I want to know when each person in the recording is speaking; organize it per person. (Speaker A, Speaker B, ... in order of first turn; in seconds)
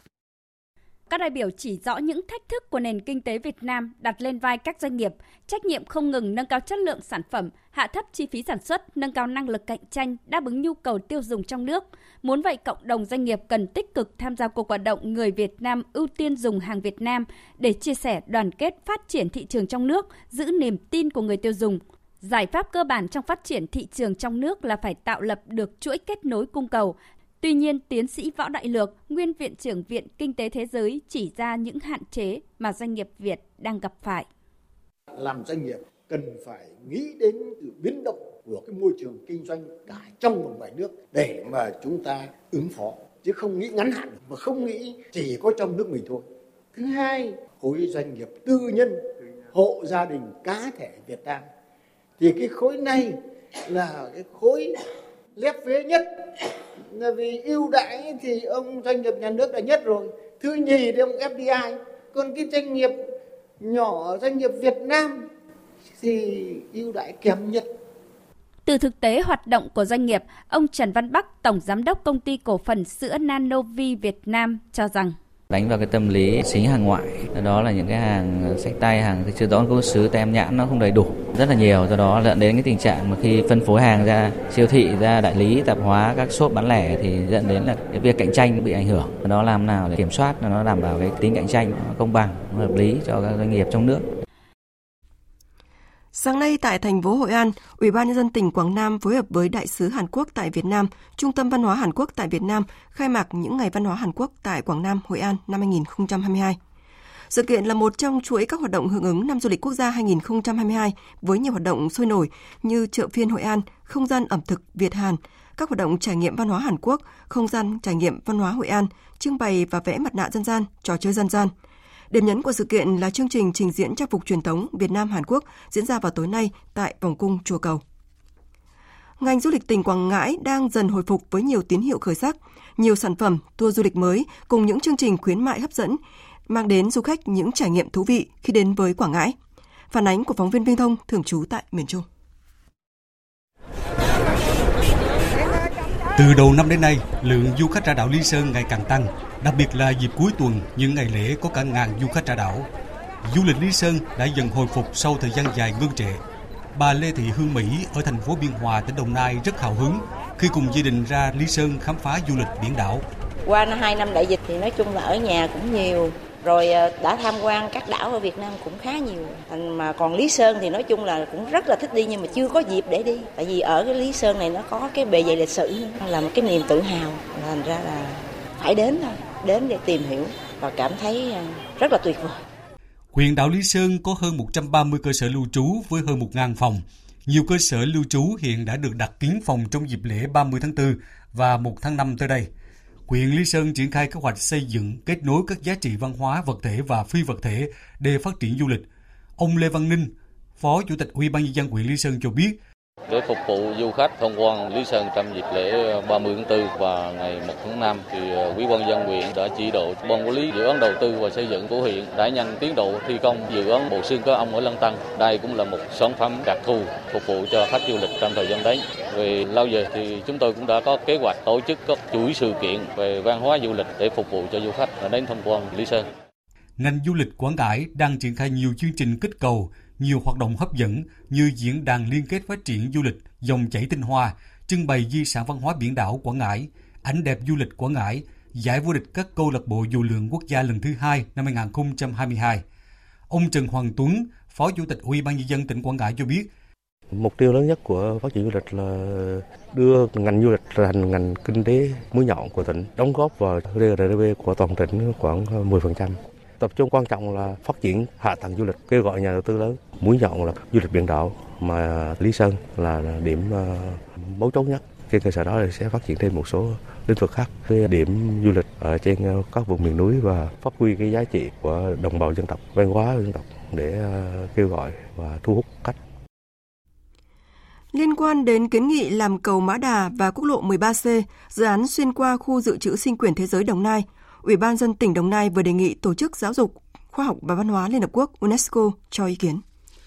Speaker A: 1.1-34.3, 68.7-75.2
Speaker B: 35.1-51.5, 52.2-54.7, 55.4-56.1, 56.9-63.0, 63.6-65.3, 66.0-67.7
Speaker C: 75.5-94.1
Speaker D: 96.1-106.6, 107.3-121.5, 122.1-127.8, 129.2-139.4, 139.9-142.1, 277.9-289.6
Speaker E: 146.2-152.7, 153.2-156.2, 156.8-163.0, 183.1-192.5, 193.1-198.9, 199.4-202.6, 226.8-242.6, 243.3-246.5
Speaker F: 163.5-182.4
Speaker G: 203.1-226.0
Speaker H: 247.1-276.0